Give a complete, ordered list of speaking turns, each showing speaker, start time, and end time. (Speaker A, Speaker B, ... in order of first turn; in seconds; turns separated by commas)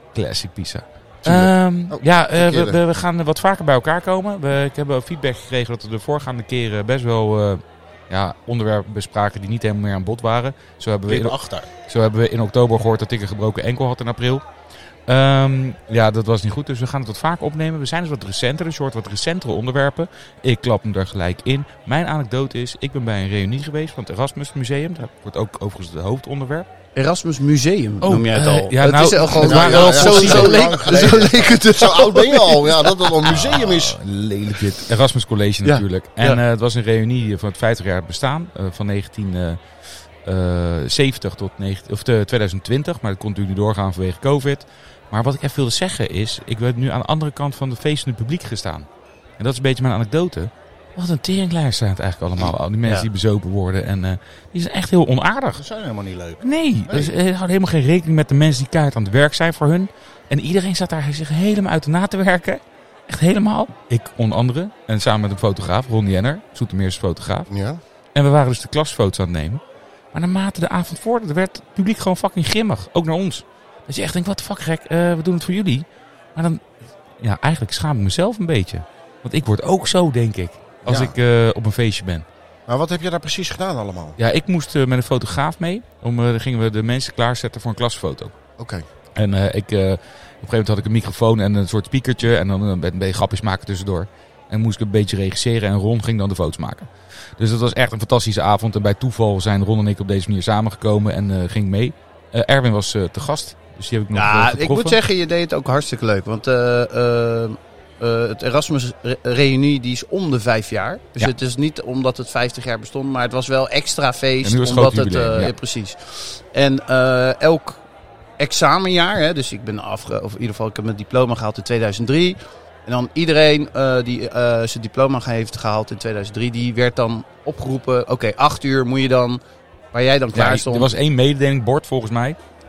Speaker A: 0.1-14.4, Speaker B: 1.2-2.8, Speaker C: 11.1-11.7, Speaker A: 15.1-26.7, Speaker D: 26.9-32.8, Speaker A: 28.0-30.7, Speaker B: 29.4-34.0, Speaker C: 29.9-31.5, Speaker A: 33.2-39.6, Speaker D: 35.6-36.4, Speaker A: 40.2-48.9, Speaker A: 49.4-55.6, Speaker C: 55.6-57.1, Speaker A: 56.4-67.5, Speaker B: 67.5-67.8, Speaker A: 68.2-69.6, Speaker A: 70.1-76.7, Speaker A: 77.2-82.3, Speaker B: 80.8-81.2, Speaker B: 82.7-84.2, Speaker A: 84.2-88.4, Speaker B: 88.6-88.8, Speaker A: 89.2-105.0, Speaker D: 104.1-117.8, Speaker A: 114.4-115.5, Speaker D: 118.4-129.4, Speaker D: 129.9-130.9, Speaker A: 130.3-132.4